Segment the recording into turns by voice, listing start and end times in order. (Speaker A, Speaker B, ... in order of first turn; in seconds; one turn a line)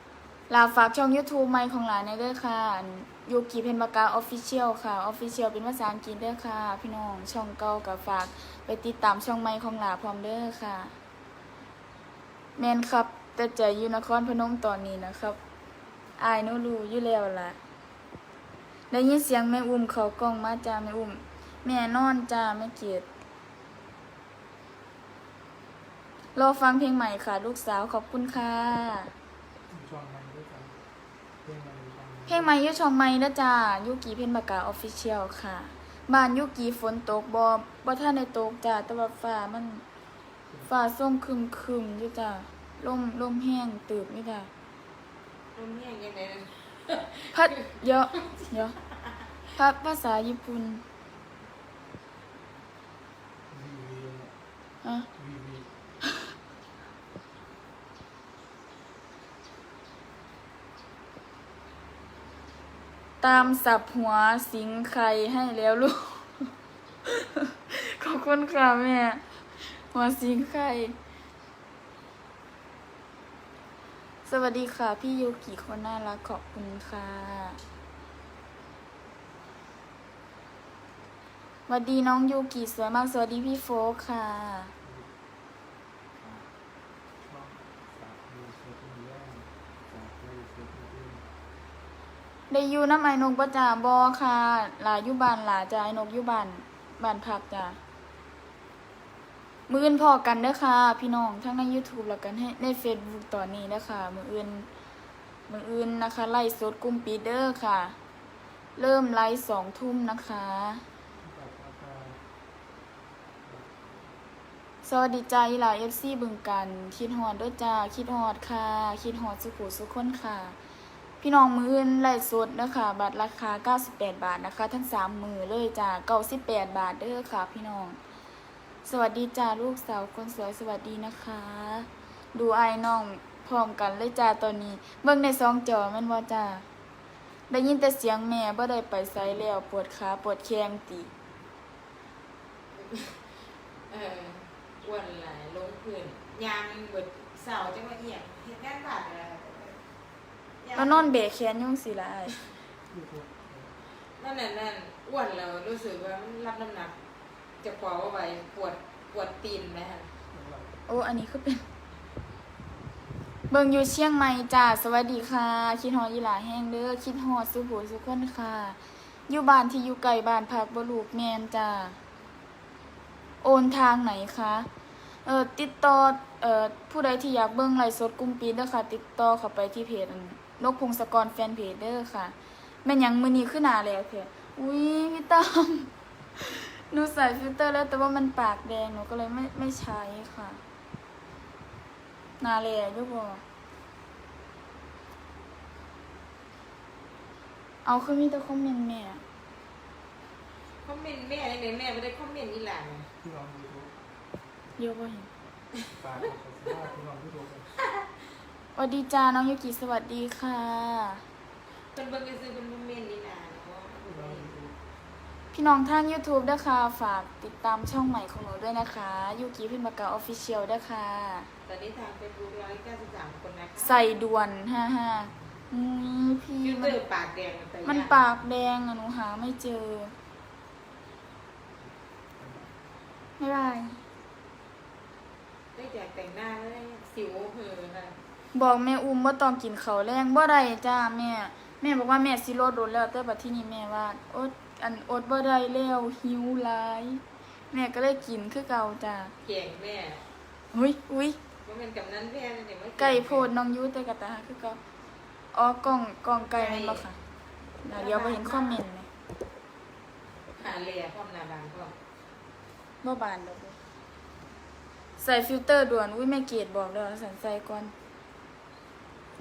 Speaker A: 0.5-10.9
Speaker A: 12.6-15.4
Speaker A: 16.2-17.6
Speaker A: 18.9-23.1
Speaker A: 26.4-29.1
Speaker B: 29.7-30.8
Speaker B: 31.4-32.5
Speaker A: 32.3-39.8
Speaker A: 40.7-44.5
Speaker C: 45.5-48.5
Speaker A: 47.3-48.7
Speaker A: 49.6-50.8
Speaker B: 53.5-54.3
Speaker B: 55.1-55.7
Speaker A: 63.2-66.5
Speaker A: 67.1-70.9
Speaker A: 74.2-77.6
Speaker A: 81.7-84.7
Speaker B: 84.8-85.1
Speaker B: 86.2-86.5
Speaker B: 87.2-91.3
Speaker A: 92.5-97.8
Speaker A: 99.7-104.7
Speaker A: 105.5-108.0
Speaker A: 108.8-110.8
Speaker B: 111.2-112.2
Speaker B: 113.4-114.2
Speaker A: 114.8-120.5
Speaker A: 121.2-128.0
Speaker A: 128.8-136.6
Speaker A: 137.5-141.1
Speaker C: 142.7-143.2
Speaker C: 143.9-149.8
Speaker C: 150.6-151.1
Speaker A: 150.7-152.4
Speaker B: 152.9-153.8
Speaker C: 154.2-156.9
Speaker C: 157.6-160.1
Speaker B: 160.3-160.8
Speaker A: 160.9-161.6
Speaker A: 163.5-172.0
Speaker A: 173.4-174.7
Speaker A: 175.2-190.6
Speaker A: 192.4-193.4
Speaker A: 197.8-199.2
Speaker C: 200.8-203.1
Speaker B: 203.2-203.9
Speaker A: 204.8-205.3
Speaker B: 206.0-207.7
Speaker C: 207.8-208.1
Speaker A: 208.8-211.2
Speaker C: 211.9-214.5
Speaker B: 214.1-214.7
Speaker A: 215.5-221.5
Speaker C: 221.7-224.0
Speaker A: 223.8-227.0
Speaker C: 226.6-228.2
Speaker A: 227.8-230.1
Speaker B: 231.8-232.7
Speaker A: 233.4-234.0
Speaker C: 235.7-238.1
Speaker A: 238.5-249.3
Speaker C: 249.4-250.2
Speaker A: 250.7-251.4
Speaker C: 251.6-253.5
Speaker A: 253.0-254.8
Speaker A: 255.5-257.1
Speaker C: 256.5-257.0
Speaker A: 257.8-259.1
Speaker C: 257.9-258.8
Speaker C: 260.6-261.9
Speaker A: 263.0-263.8
Speaker A: 265.2-267.9